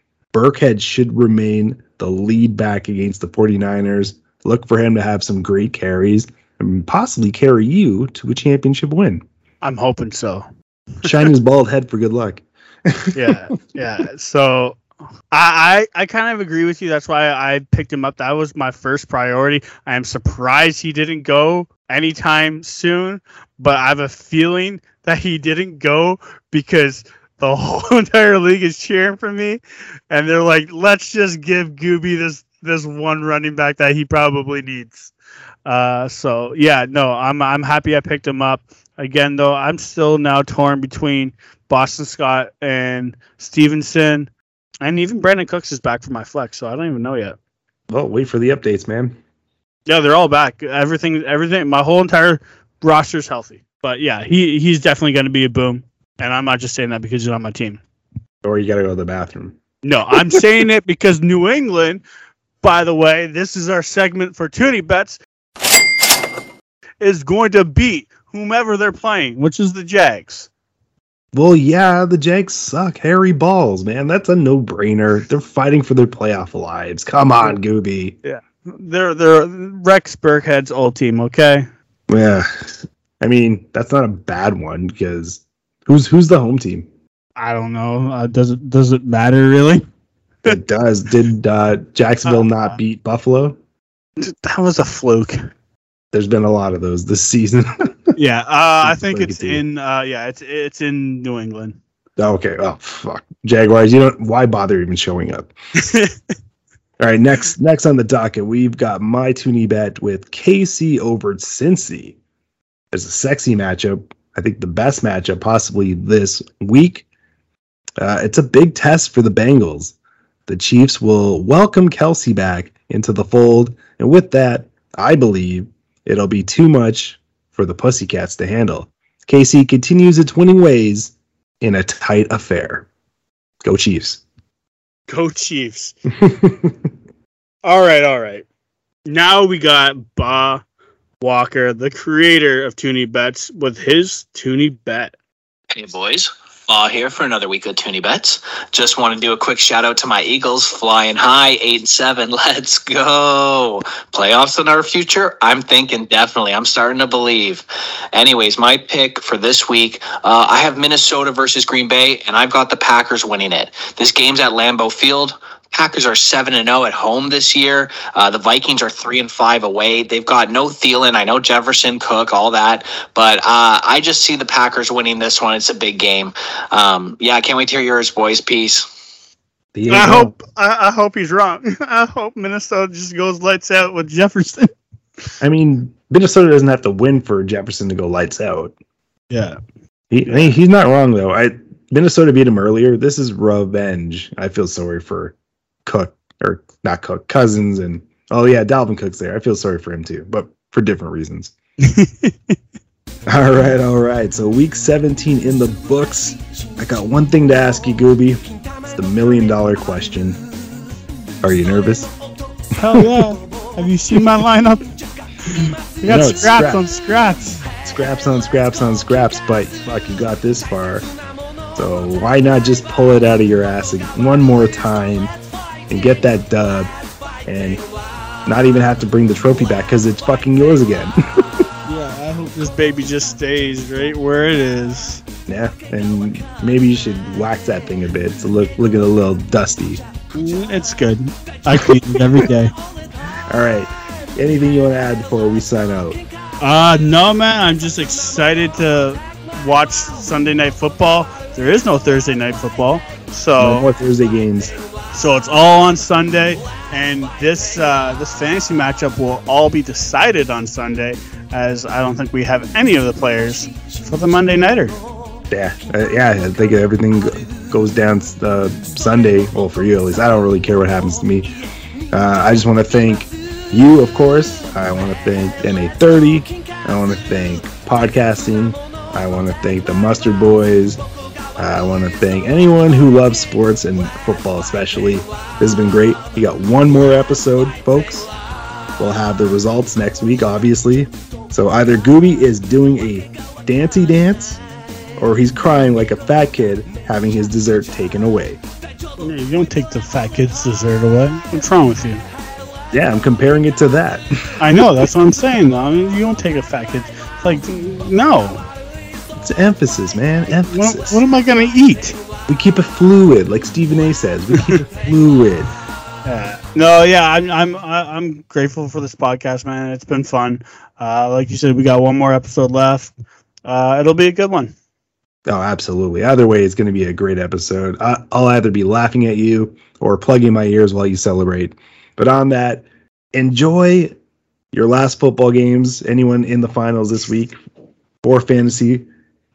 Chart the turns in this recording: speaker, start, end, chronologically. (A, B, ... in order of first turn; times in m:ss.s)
0:00.3-0:09.2 A
0:09.6-0:10.5 B
0:11.0-0:11.3 B
0:11.0-0:13.6 A
0:13.2-0:14.8 B
0:15.3-0:35.1 B
0:35.7-0:44.3 B
0:44.8-0:47.4 B
0:47.9-0:49.2 A
0:49.9-0:57.8 B
0:58.4-0:59.6 A
0:59.8-1:02.0 B
1:02.6-1:05.2 B
1:07.0-1:10.5 B
1:11.3-1:18.2 A
1:18.2-1:21.7 B
1:22.1-1:26.9 A
1:27.4-1:29.9 B
1:30.5-1:33.6 A
1:32.3-1:32.8 B
1:34.2-1:35.4 B
1:36.1-1:38.1 A
1:38.2-1:41.8 B
1:38.8-1:39.6 A
1:42.2-1:45.5 A
1:45.8-1:46.2 B
1:47.0-1:52.2 A
1:52.9-1:57.1 A
1:58.0-2:00.0 A
2:00.5-2:12.9 A
2:13.6-2:14.2 A
2:15.1-2:16.0 B
2:16.2-2:16.7 A
2:17.6-2:18.5 B
2:19.1-2:20.6 B
2:21.2-2:25.1 B
2:25.7-2:58.9 C
2:59.7-3:00.3 A
2:59.9-3:04.7 B
3:05.4-3:08.7 A
3:09.3-3:09.6 B
3:10.1-3:21.5 A
3:10.3-3:10.6 B
3:21.8-3:22.6 B
3:23.3-3:30.4 A
3:31.4-3:32.1 A
3:32.8-3:34.9 B
3:32.9-3:33.3 A
3:35.4-3:37.6 B
3:36.1-3:36.8 A
3:37.8-3:41.1 A
3:41.8-3:45.3 A
3:45.9-3:46.9 A
3:47.5-3:47.8 A
3:48.5-3:51.2 A
3:51.8-3:55.2 B
3:55.5-4:00.0 A
4:00.3-4:02.7 B
4:03.5-4:06.2 A
4:06.6-4:13.9 B
4:13.6-4:14.7 A
4:15.1-4:25.0 B
4:25.5-4:31.5 A
4:32.1-4:41.0 A
4:41.6-4:48.3 A
4:49.0-4:54.6 A
4:55.2-4:58.6 A
4:59.2-5:02.2 B
5:02.9-5:04.3 A
5:04.6-5:08.6 B
5:09.4-5:11.2 A
5:10.6-5:12.2 B
5:12.5-5:15.7 A
5:16.2-5:23.1 B
5:23.7-5:24.7 B
5:25.5-5:34.1 A
5:34.7-5:37.6 A
5:38.2-5:39.1 A